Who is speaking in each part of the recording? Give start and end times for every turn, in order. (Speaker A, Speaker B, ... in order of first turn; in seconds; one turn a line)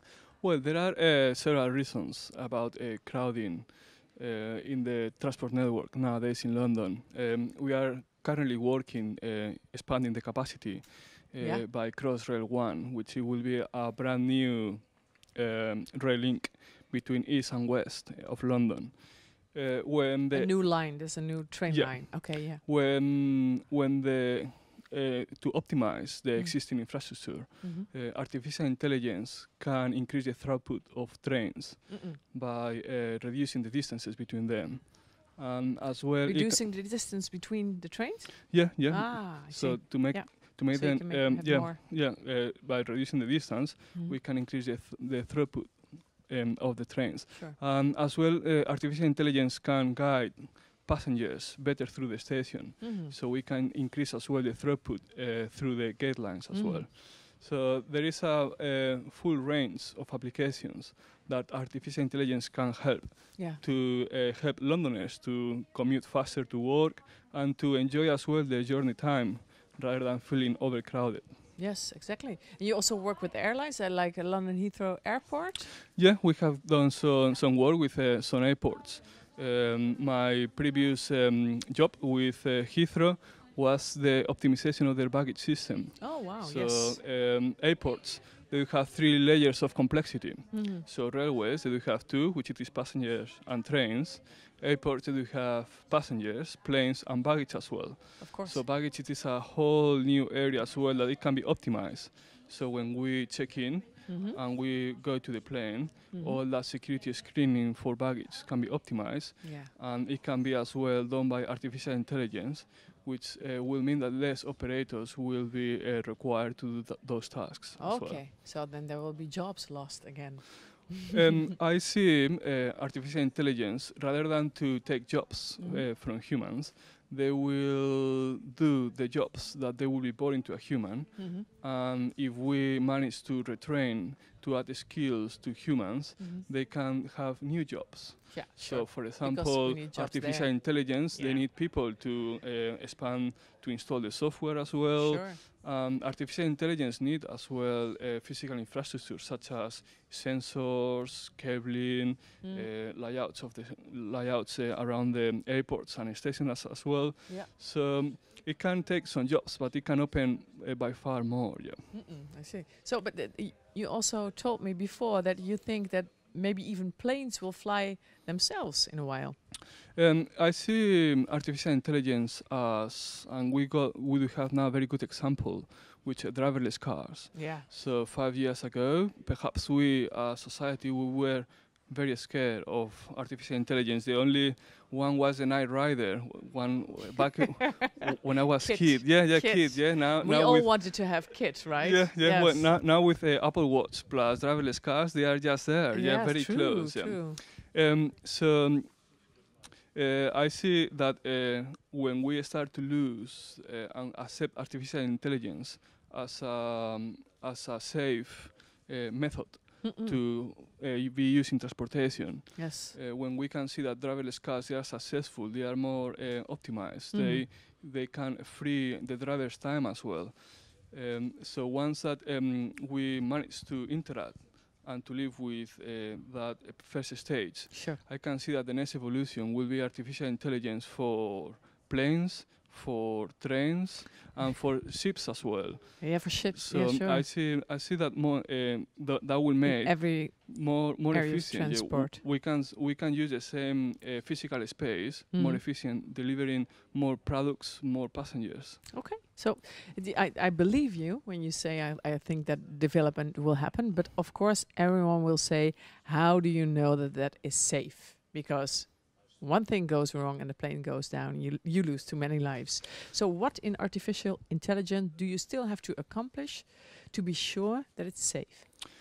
Speaker A: 0.4-36.6
Speaker B: 11.4-11.7
Speaker B: 20.3-22.6
Speaker B: 26.3-27.9
Speaker B: 31.9-32.2
Speaker B: 36.2-41.8
Speaker A: 38.5-71.4
Speaker B: 47.3-47.6
Speaker B: 52.8-53.1
Speaker B: 56.5-56.9
Speaker B: 63.4-63.6
Speaker B: 71.6-75.7
Speaker A: 76.0-118.2
Speaker B: 86.0-87.0
Speaker B: 90.5-90.8
Speaker B: 98.2-98.6
Speaker B: 104.1-104.4
Speaker B: 106.1-106.4
Speaker B: 109.4-109.7
Speaker B: 117.8-121.2
Speaker A: 121.1-161.9
Speaker B: 125.6-125.9
Speaker B: 131.2-131.4
Speaker B: 136.2-136.4
Speaker B: 138.3-141.4
Speaker B: 145.0-145.4
Speaker B: 152.4-152.7
Speaker B: 161.9-169.4
Speaker A: 169.9-199.1
Speaker B: 177.3-177.7
Speaker B: 188.6-192.7
Speaker B: 195.9-197.4
Speaker A: 199.9-249.0
Speaker B: 209.8-210.2
Speaker B: 212.5-212.9
Speaker B: 217.1-217.5
Speaker B: 227.7-228.0
Speaker B: 236.0-237.2
Speaker B: 239.6-242.2
Speaker B: 245.3-245.6
Speaker B: 248.9-268.7